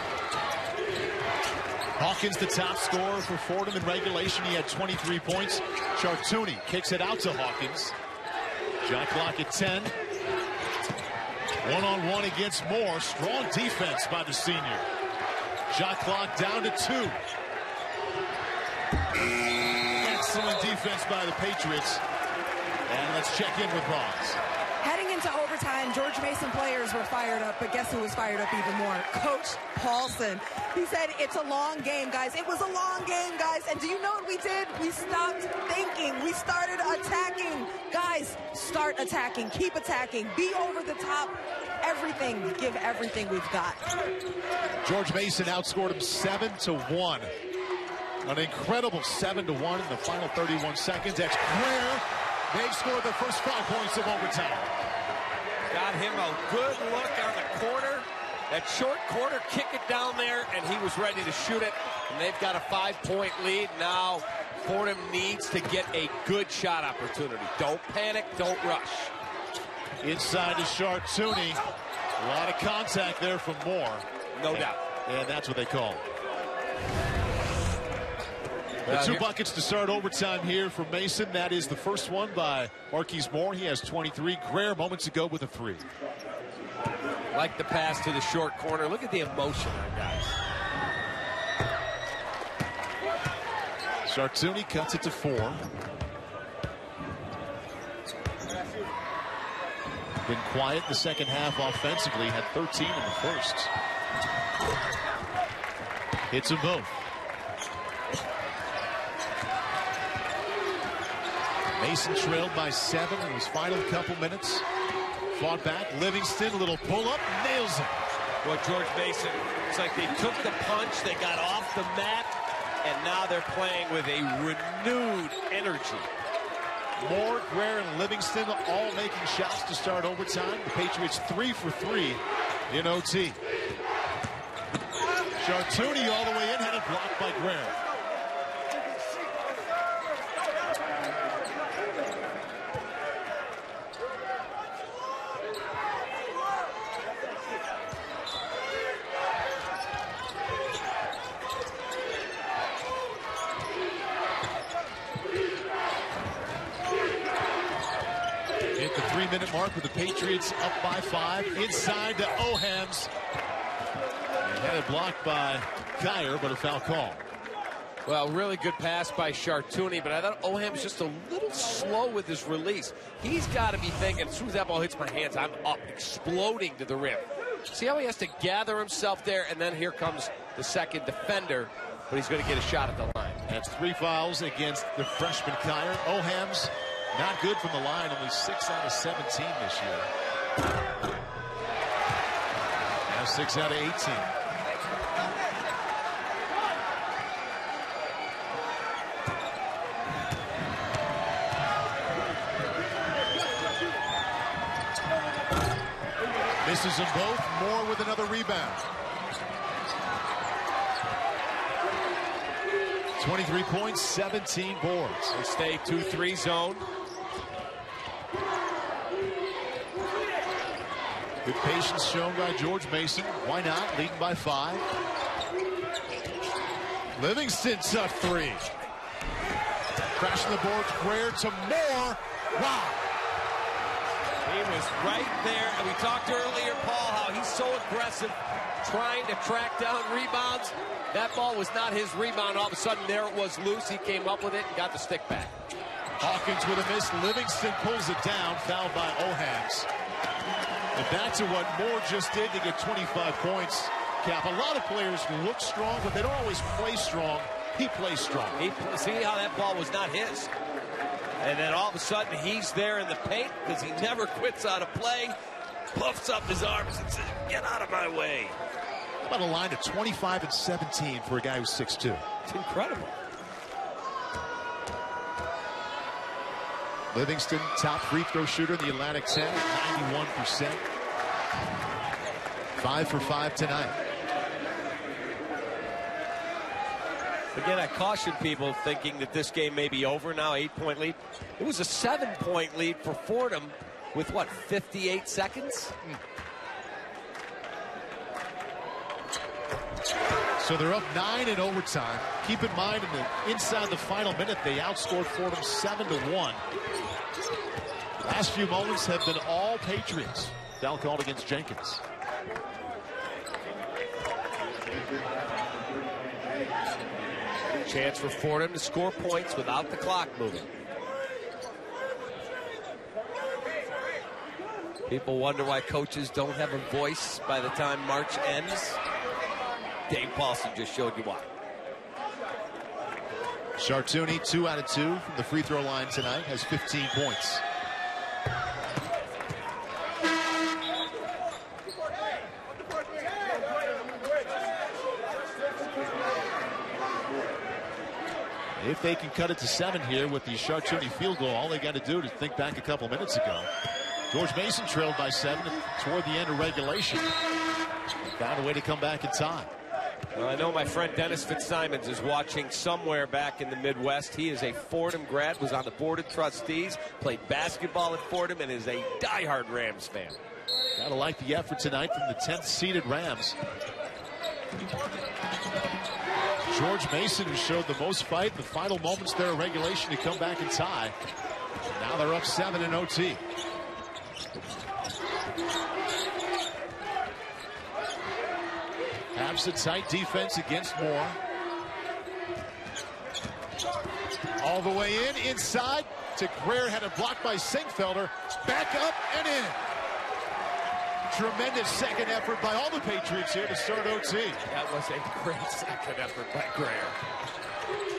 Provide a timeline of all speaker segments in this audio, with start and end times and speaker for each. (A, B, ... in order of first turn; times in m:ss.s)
0:02.0-0:07.9 A
0:08.8-0:09.9 A
0:11.6-0:14.8 A
0:15.7-0:17.2 A
0:20.0-0:22.0 A
0:22.9-0:24.4 A
0:24.8-0:43.8 B
0:44.8-0:47.3 A
0:48.2-0:54.7 A
0:55.7-1:09.1 C
1:10.0-1:11.6 A
1:12.2-1:16.0 A
1:14.4-1:14.8 C
1:18.9-1:19.2 C
1:18.9-1:25.8 A
1:27.3-1:30.4 C
1:34.0-1:35.6 A
1:40.2-1:43.7 A
1:46.3-1:46.9 A
1:51.8-1:54.6 A
1:55.3-1:58.0 A
1:58.4-2:06.1 C
2:07.0-2:13.4 A
2:15.4-2:17.8 A
2:38.8-2:43.1 A
2:44.4-2:47.2 A
2:48.0-3:03.4 C
3:03.5-3:10.1 A
3:13.1-3:14.3 A
3:26.6-3:28.8 A
3:33.2-3:35.3 A
3:35.3-3:36.8 C
3:41.4-3:44.8 A
3:47.2-3:48.7 A
3:50.2-3:53.0 A
3:54.4-4:05.5 C
4:06.2-4:09.9 A
4:10.9-4:18.6 A
4:18.6-4:20.5 C
4:21.4-4:25.4 C
4:25.9-4:28.6 C
4:29.2-4:32.2 A
4:32.4-4:33.1 C
4:37.1-4:40.8 A
4:42.8-4:44.0 A
4:47.5-4:56.0 C
5:00.6-5:06.6 A
5:08.2-5:12.0 A
5:17.8-5:20.7 C
5:25.1-5:29.0 C
5:30.1-5:31.5 C
5:33.8-5:37.6 A
5:48.8-5:53.7 A
5:54.3-5:57.3 A
5:58.3-5:59.7 A
6:00.3-6:10.4 C
6:11.0-6:13.6 A
6:16.7-6:21.1 A
6:21.9-6:23.4 A
6:29.3-6:31.4 A
6:34.6-6:39.8 A
6:41.3-6:44.6 A
6:44.7-6:47.2 C